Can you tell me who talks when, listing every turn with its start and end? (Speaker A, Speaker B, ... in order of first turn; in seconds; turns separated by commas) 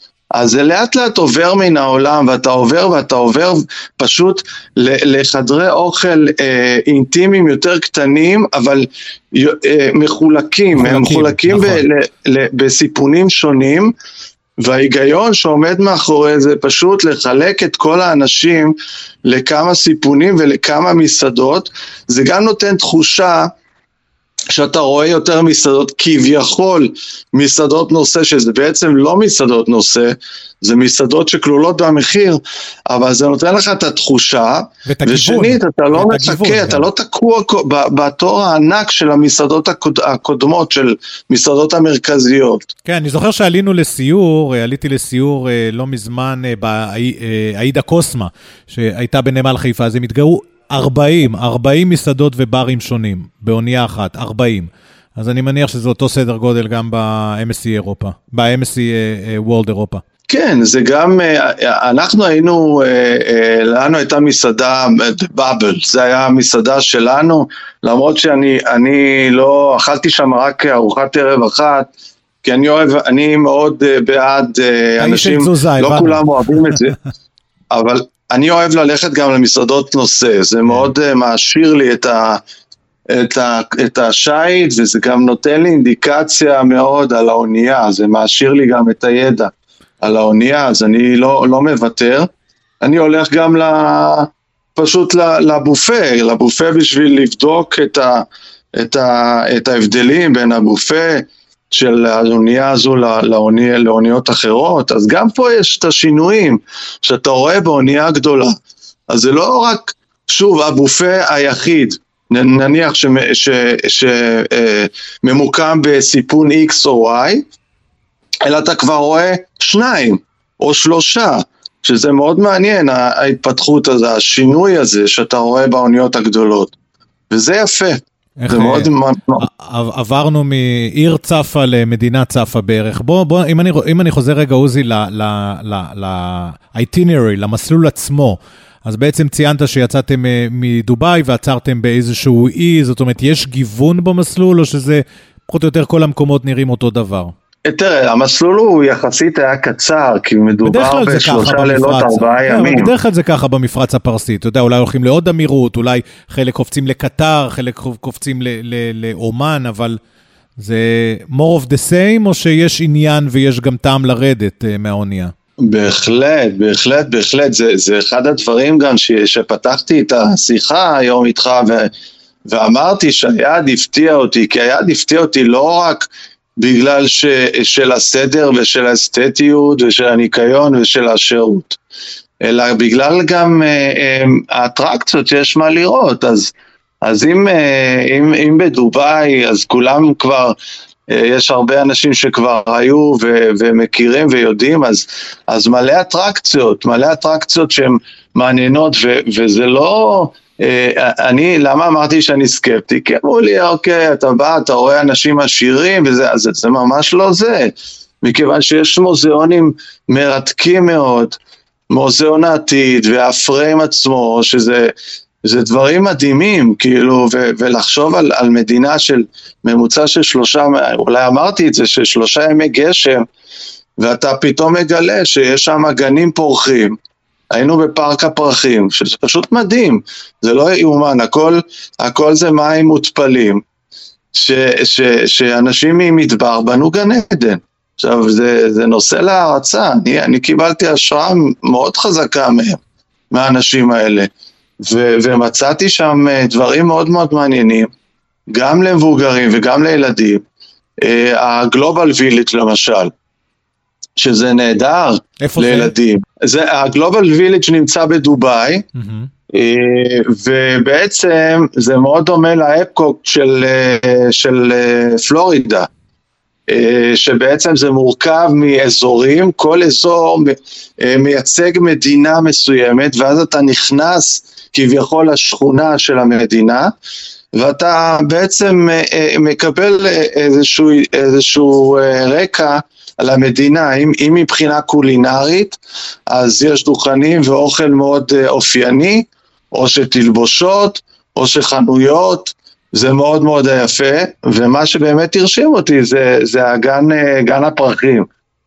Speaker A: 0.3-13.9, Speaker B: 10.8-11.8, Speaker A: 14.6-23.5, Speaker A: 24.5-42.7, Speaker B: 34.9-36.9, Speaker B: 42.9-60.0, Speaker A: 60.3-71.9, Speaker A: 72.4-77.0, Speaker B: 75.0-76.8, Speaker A: 77.7-82.4, Speaker A: 83.1-92.3, Speaker A: 92.8-98.2, Speaker A: 98.8-108.5, Speaker A: 109.1-117.5, Speaker A: 118.5-126.7, Speaker A: 127.3-129.4, Speaker B: 128.4-147.3, Speaker A: 147.7-152.9, Speaker B: 150.7-160.0, Speaker B: 160.6-165.3, Speaker A: 165.6-171.9, Speaker A: 172.5-176.1, Speaker A: 176.6-181.8, Speaker A: 182.4-190.6, Speaker A: 191.1-211.4, Speaker A: 211.9-214.9, Speaker A: 215.4-223.2, Speaker A: 224.0-226.9, Speaker A: 227.5-233.6, Speaker A: 234.3-242.8, Speaker A: 243.3-244.3, Speaker A: 244.8-247.9, Speaker A: 248.5-250.4, Speaker A: 251.0-253.1, Speaker A: 254.2-258.9, Speaker B: 255.4-255.9, Speaker B: 258.9-259.3, Speaker A: 259.5-265.9, Speaker A: 266.7-276.9, Speaker A: 277.6-285.8, Speaker A: 286.3-298.3